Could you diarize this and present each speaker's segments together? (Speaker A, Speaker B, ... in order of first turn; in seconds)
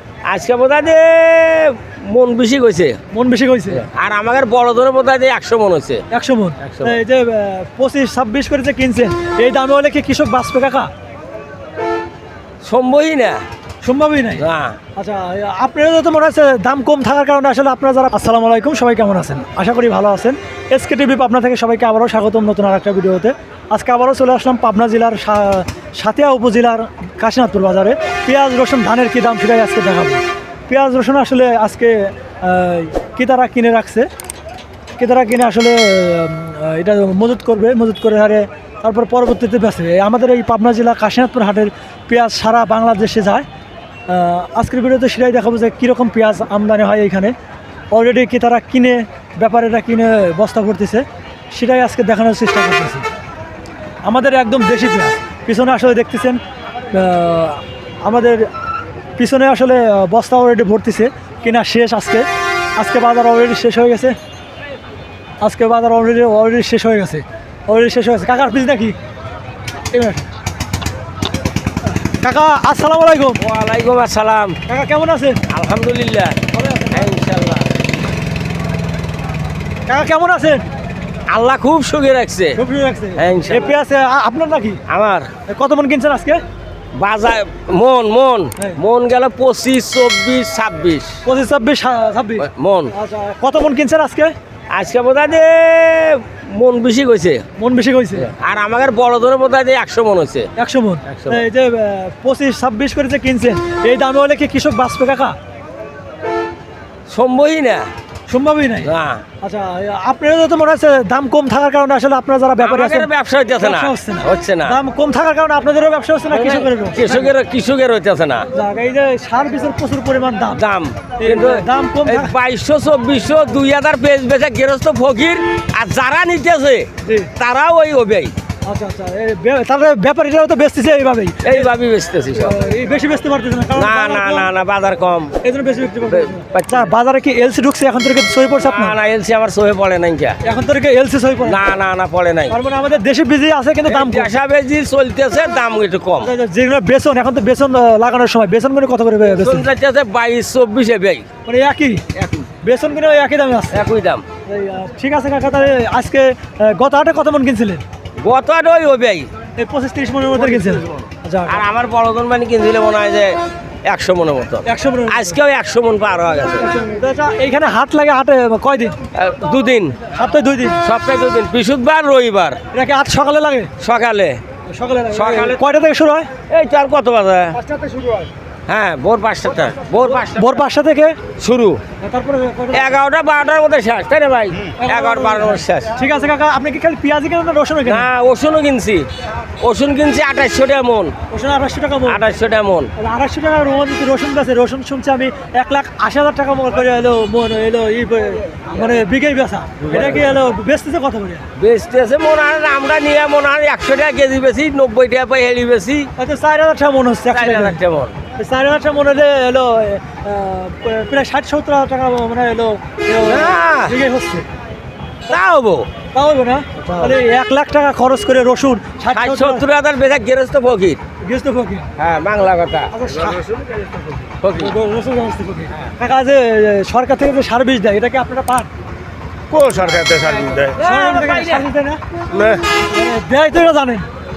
Speaker A: 0.2-3.0, 3.7-6.0, 6.6-7.0, 12.6-13.4, 14.4-14.8, 73.4-74.5, 75.5-77.7, 81.3-82.6, 83.2-83.8, 84.9-85.3, 87.0-91.2, 92.4-92.9, 94.7-97.4, 98.2-100.5, 101.1-101.4, 107.1-107.9, 108.8-109.2, 112.6-114.8, 116.3-118.5, 120.5-128.3, 131.4-132.6, 133.7-135.3, 136.1-136.9, 138.6-140.4, 141.4-142.5, 143.8-146.3, 149.3-151.2, 152.2-152.4, 153.7-154.2, 158.2-159.3, 161.5-163.3, 163.9-166.7, 169.1-170.0, 170.8-172.6, 173.8-174.4, 175.1-175.6, 176.5-177.6, 178.7-180.6, 181.4-181.8, 182.7-185.9, 187.8-189.1, 189.6-191.1, 192.1-192.9, 199.8-200.2, 201.6-206.1, 207.3-208.2, 213.2-214.0, 215.3-215.9, 216.8-217.1, 219.1-221.0, 222.0-222.9, 224.4-224.7, 230.8-231.7
Speaker B: 3.1-3.9, 6.1-10.9, 13.8-14.4, 14.9-34.1, 35.0-43.5, 44.1-47.3, 47.9-53.0, 54.0-56.4, 56.9-58.5, 59.2-64.2, 65.4-69.0, 69.9-70.3, 72.0-73.4, 74.7-75.4, 76.5-77.1, 79.9-80.6, 82.5-84.8, 85.5-86.4, 91.2-94.3, 97.6-98.3, 100.6-105.3, 108.3-108.9, 109.4-117.3, 118.5-120.6, 121.2-122.3, 127.0-127.3, 128.7-131.7, 132.3-134.5, 135.4-139.0, 140.4-141.6, 142.5-144.3, 146.2-149.7, 151.4-152.0, 152.6-153.8, 154.4-157.8, 159.6-161.6, 164.7-165.4, 166.6-168.9, 170.1-170.8, 172.7-173.7, 174.7-176.3, 177.8-178.2, 180.1-181.2, 182.0-183.0, 184.8-188.1, 191.3-192.2, 193.0-201.5, 206.2-207.8, 208.4-214.5, 216.1-219.7, 221.2-221.9, 222.9-223.5, 224.5-228.7, 230.8-232.0, 232.9-234.1
Speaker C: 223.2-223.7, 229.5-230.8, 232.3-232.6